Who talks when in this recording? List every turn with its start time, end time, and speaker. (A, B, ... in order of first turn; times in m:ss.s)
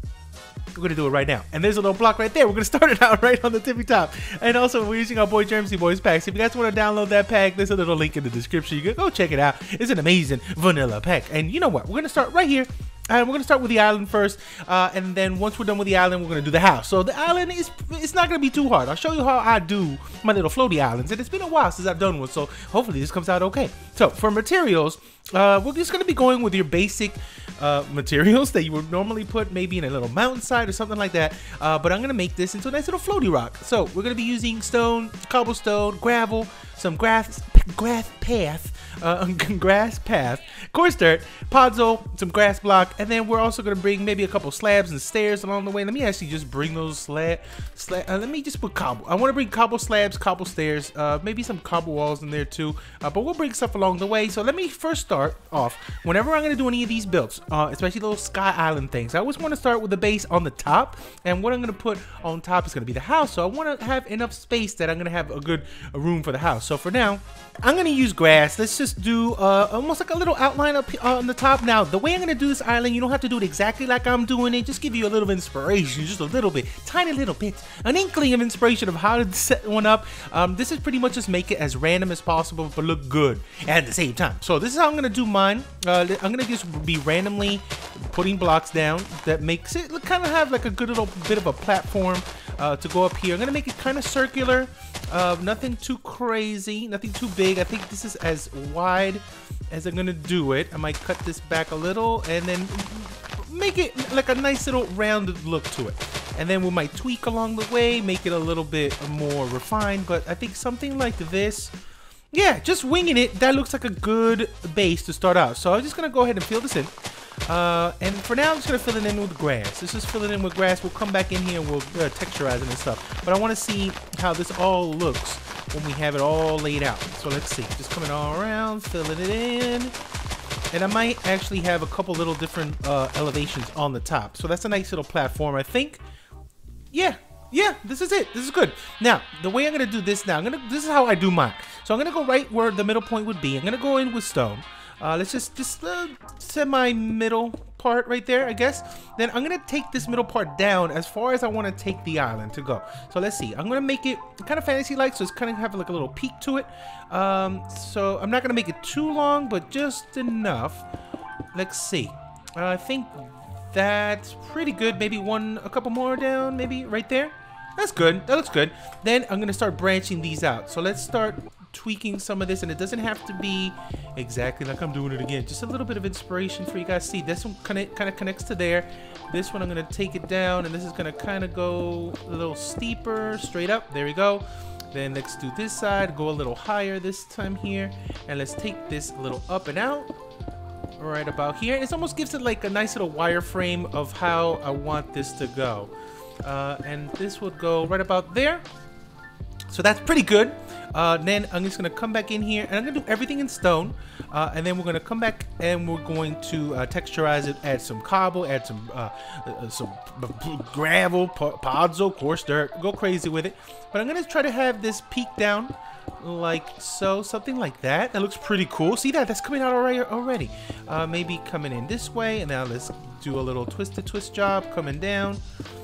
0:00.8-1:51.8 A
1:52.3-1:57.0 A
1:57.5-2:10.0 A
2:10.7-2:16.0 A
2:16.9-2:40.9 A
2:41.5-3:10.1 A
3:11.0-3:15.9 A
3:16.4-3:18.6 A
3:19.7-3:45.4 A